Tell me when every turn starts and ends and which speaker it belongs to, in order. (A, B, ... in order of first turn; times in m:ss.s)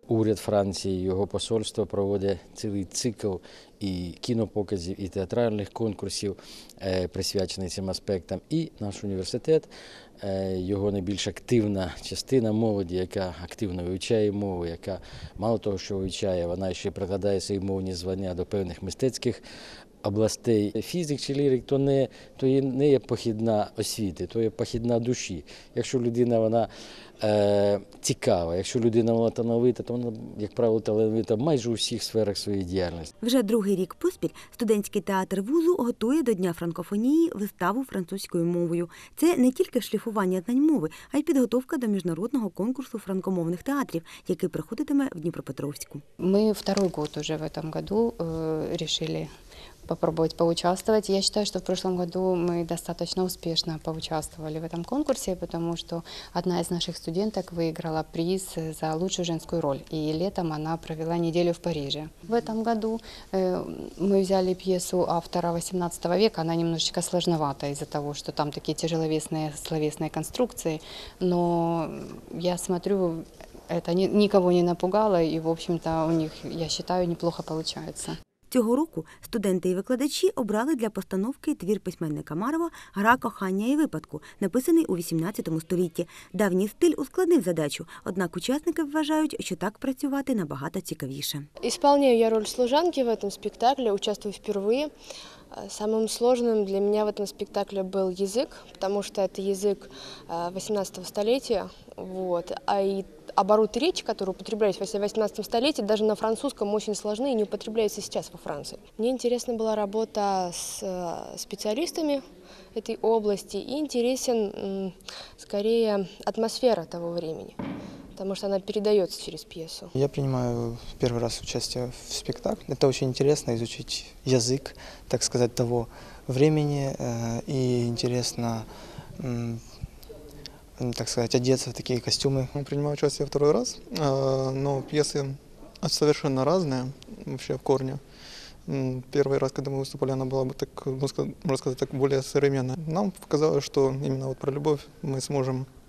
0:00.1-0:09.7 A
0:10.2-0:19.4 A
0:20.0-0:26.7 A
0:27.2-0:33.1 A
0:33.2-0:46.0 B
0:46.2-0:49.3 C
0:49.9-1:18.2 C
1:18.5-1:31.5 B
1:31.6-1:34.9 D
1:35.6-1:52.2 D
1:52.8-1:57.5 D
1:58.2-1:59.9 D
1:59.9-2:09.6 E
2:10.8-2:12.5 E
2:12.5-2:15.3 F
2:15.8-2:18.0 F
2:18.7-2:25.6 F